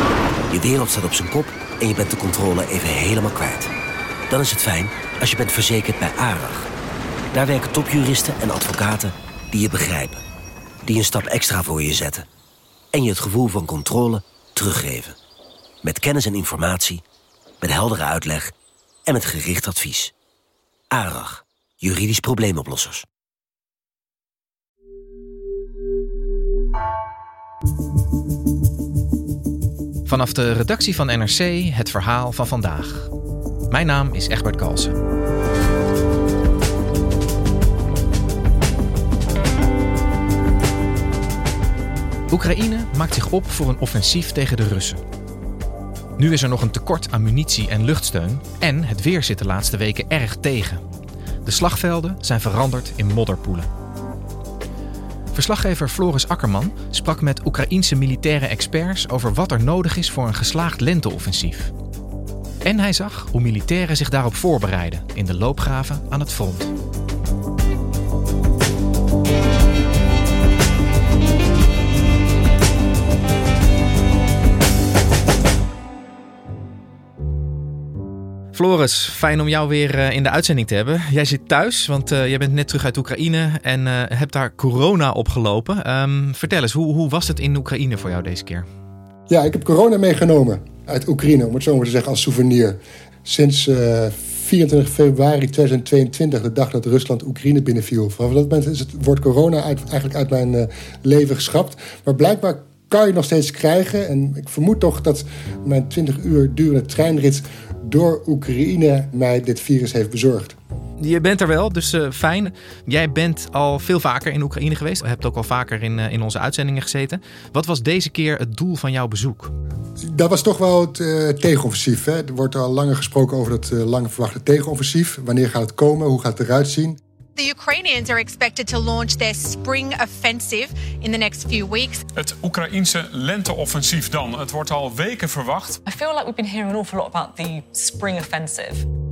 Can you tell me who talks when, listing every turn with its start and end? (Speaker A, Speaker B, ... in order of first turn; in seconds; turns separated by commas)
Speaker A: 0.5-3.7, Speaker A: 4.3-6.7, Speaker A: 7.3-10.2, Speaker A: 10.8-12.2, Speaker A: 12.9-15.2, Speaker A: 15.8-17.0, Speaker A: 17.6-18.5, Speaker A: 19.1-20.1, Speaker A: 20.9-23.0, Speaker B: 30.1-33.1, Speaker B: 33.7-34.9, Speaker B: 42.3-45.0, Speaker B: 46.2-50.8, Speaker B: 51.4-53.7, Speaker B: 55.3-61.7, Speaker B: 62.6-66.7, Speaker B: 78.5-88.7, Speaker C: 89.3-110.5, Speaker B: 111.0-119.5, Speaker C: 120.0-127.0, Speaker D: 127.4-132.0, Speaker E: 132.2-135.8, Speaker F: 135.8-138.8